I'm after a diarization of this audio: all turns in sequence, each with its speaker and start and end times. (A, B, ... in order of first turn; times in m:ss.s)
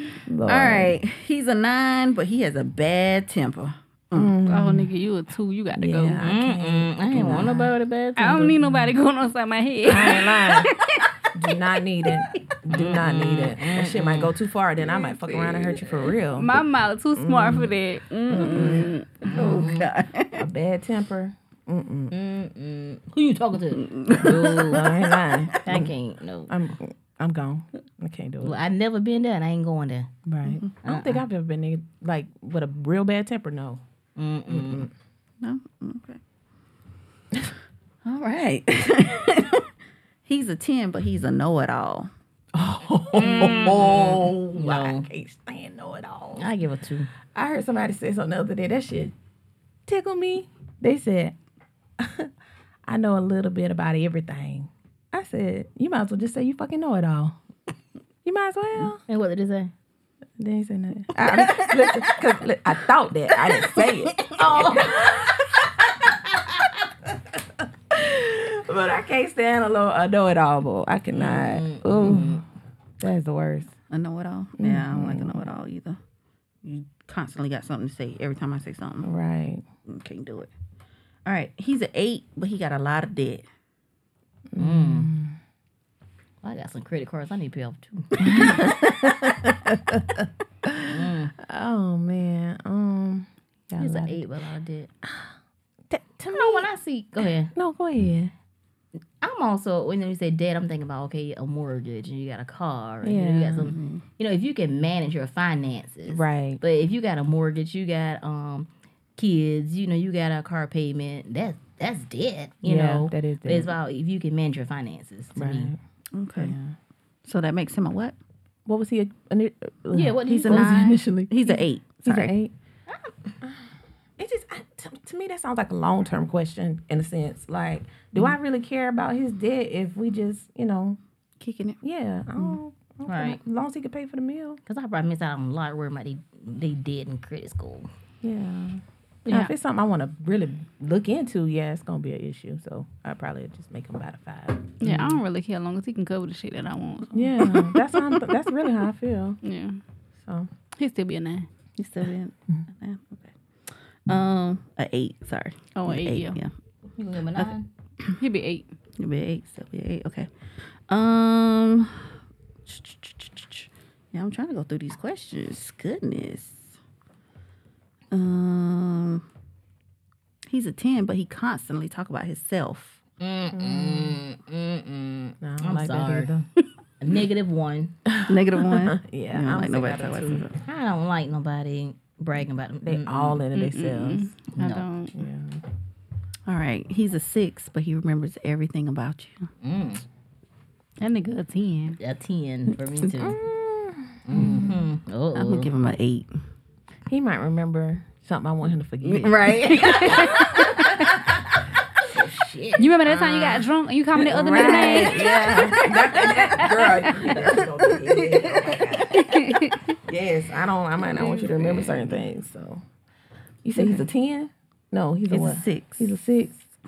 0:00.3-0:01.0 A
0:00.4-0:04.3 B
0:04.1-0:04.9 A
0:04.4-0:06.2 C
0:05.8-0:07.6 A
0:06.2-0:08.6 D
0:08.2-0:11.1 C
0:09.8-0:10.7 A
0:11.3-0:16.5 A
0:12.7-0:14.3 D
0:14.8-0:19.5 C
0:17.1-0:17.7 A
0:18.3-0:18.9 A
0:19.2-0:19.9 D
0:19.3-0:20.4 B
0:20.3-0:22.1 A
0:22.1-0:24.9 D
0:23.7-0:25.6 B
0:24.3-0:25.9 A
0:25.6-0:26.6 D
0:26.5-0:28.6 A
0:28.4-0:30.1 D
0:30.3-0:33.8 A
0:30.8-0:31.2 D
0:34.2-0:34.9 D
0:34.5-0:34.9 A
0:35.4-0:36.2 B
0:38.0-0:39.7 B
0:40.2-0:42.1 B
0:42.5-0:46.5 A
0:43.1-0:45.1 D
0:46.4-0:47.1 D
0:47.3-0:49.1 A
0:49.9-0:51.4 A
0:52.0-0:52.3 A
0:52.9-0:57.4 A
0:58.2-0:59.0 A
0:59.1-0:59.7 D
1:00.4-1:12.4 A
1:04.2-1:04.8 D
1:11.1-1:12.4 D
1:13.0-1:13.7 A
1:13.9-1:16.0 B
1:14.6-1:15.4 A
1:16.6-1:19.1 B
1:19.0-1:19.6 A
1:19.9-1:20.5 B
1:21.2-1:23.4 B
1:24.5-1:25.4 A
1:24.6-1:25.1 D
1:26.4-1:28.6 D
1:28.2-1:34.3 A
1:30.8-1:31.3 D
1:33.8-1:34.9 D
1:35.0-1:35.3 A
1:35.9-1:36.7 A
1:36.3-1:37.5 D
1:37.5-1:38.3 A
1:39.2-1:55.7 D
1:43.0-1:43.7 A
1:43.6-1:44.0 B
1:46.1-1:46.6 A
1:52.6-1:53.7 A
1:55.4-1:55.8 A
1:56.1-1:56.6 B
1:56.4-1:56.7 A
1:57.3-1:58.2 B
1:58.7-2:02.5 A
1:59.9-2:01.0 D
2:00.2-2:02.3 B
2:02.9-2:03.3 D
2:03.4-2:11.0 A
2:11.4-2:11.8 B
2:11.8-2:14.6 A
2:13.1-2:13.4 D
2:14.7-2:17.9 D
2:18.2-2:25.2 A
2:19.3-2:19.5 C
2:24.8-2:27.2 C
2:27.1-2:29.4 A
2:27.5-2:28.2 B
2:29.4-2:29.8 C
2:30.2-2:30.5 A
2:30.8-2:31.5 C
2:31.8-2:33.3 B
2:34.1-2:36.5 B
2:35.7-2:36.4 C
2:37.0-2:37.7 D
2:38.2-2:38.7 C
2:39.0-2:40.3 B
2:40.9-2:42.1 B
2:42.6-2:46.7 B
2:48.1-2:49.2 B
2:50.5-2:53.0 B
2:53.2-2:56.3 D
2:53.5-2:54.2 A
2:55.4-2:56.5 A
2:57.0-2:58.0 D
2:58.1-3:00.5 A
2:58.3-3:00.5 B
3:00.6-3:03.4 D
3:02.8-3:04.3 A
3:03.5-3:05.2 C
3:04.6-3:04.8 D
3:05.1-3:05.6 A
3:06.4-3:09.4 B
3:09.6-3:10.0 D
3:11.0-3:12.0 C
3:12.0-3:13.4 D
3:13.2-3:14.9 A
3:14.3-3:15.7 D
3:15.3-3:16.3 B
3:17.1-3:21.4 A
3:19.0-3:20.6 B
3:19.7-3:21.1 C
3:22.1-3:29.3 A
3:22.1-3:22.4 D
3:22.8-3:27.3 C
3:24.4-3:25.8 B
3:27.3-3:29.4 B
3:29.1-3:30.0 C
3:30.1-3:32.8 A
3:31.1-3:32.1 D
3:33.6-3:36.6 A
3:35.3-3:36.1 B